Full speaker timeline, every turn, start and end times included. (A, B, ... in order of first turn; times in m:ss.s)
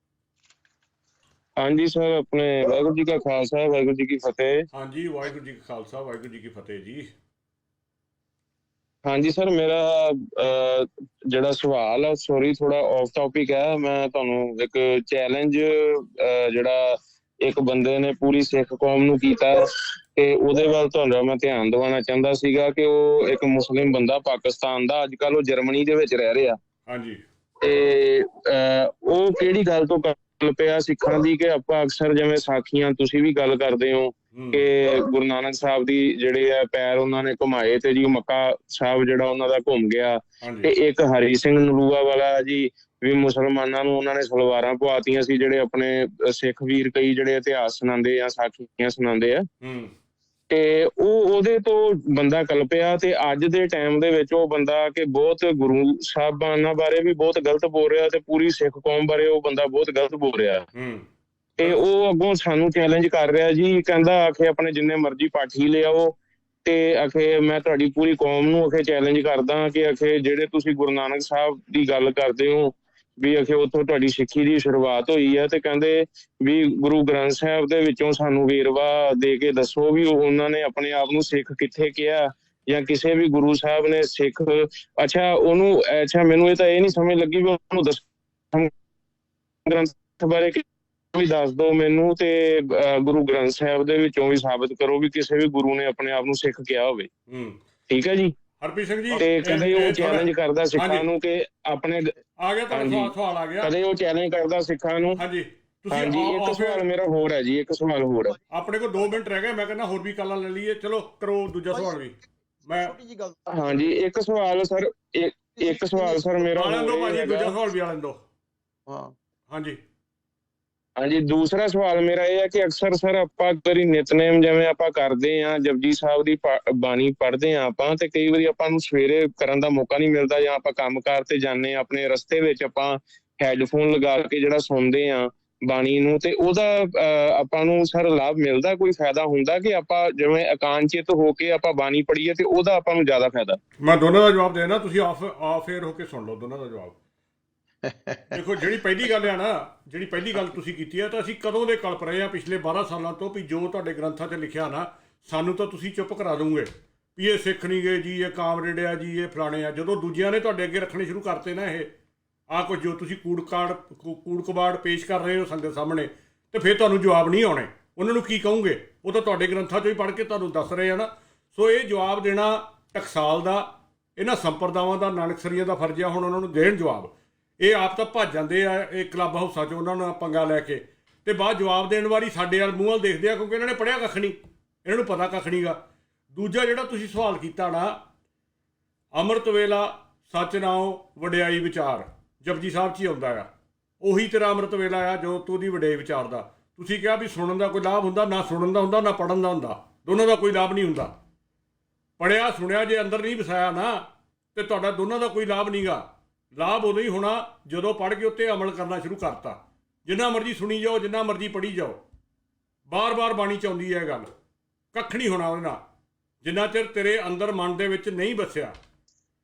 0:01.6-0:04.6 A
0:04.7-0:07.1 B
0:09.1-0:19.6 A
0:20.2-0:26.6 A
0:26.9-0:27.2 B
0:27.6-0:49.4 A
0:34.3-0:34.6 B
0:40.4-0:40.7 B
0:49.6-0:49.9 B
0:50.5-1:00.7 A
1:00.7-1:01.1 B
1:01.6-1:06.1 A
1:06.6-1:28.7 A
1:29.7-1:30.6 A
1:31.1-1:37.1 A
1:37.3-1:37.6 B
1:37.9-1:38.3 A
1:38.6-1:41.1 B
1:39.1-1:42.1 A
1:42.4-1:43.7 B
1:42.7-1:45.2 A
1:45.2-1:46.8 B
1:45.9-1:48.3 A
1:48.2-1:49.2 C
1:48.5-1:52.9 B
1:51.7-1:52.1 C
1:52.6-1:53.9 C
1:53.5-1:57.6 A
1:55.6-1:56.4 C
1:56.5-1:58.2 B
1:58.9-1:59.1 C
1:59.5-1:59.8 B
2:01.0-2:23.6 A
2:23.8-2:27.0 B
2:27.8-2:28.4 C
2:28.3-2:41.9 B
2:42.5-3:05.8 B
3:06.3-3:08.0 B
3:09.2-3:13.5 B
3:14.0-3:21.2 B
3:22.2-3:32.0 B
3:32.9-3:34.3 B
3:34.9-3:35.8 B
3:36.4-3:38.7 B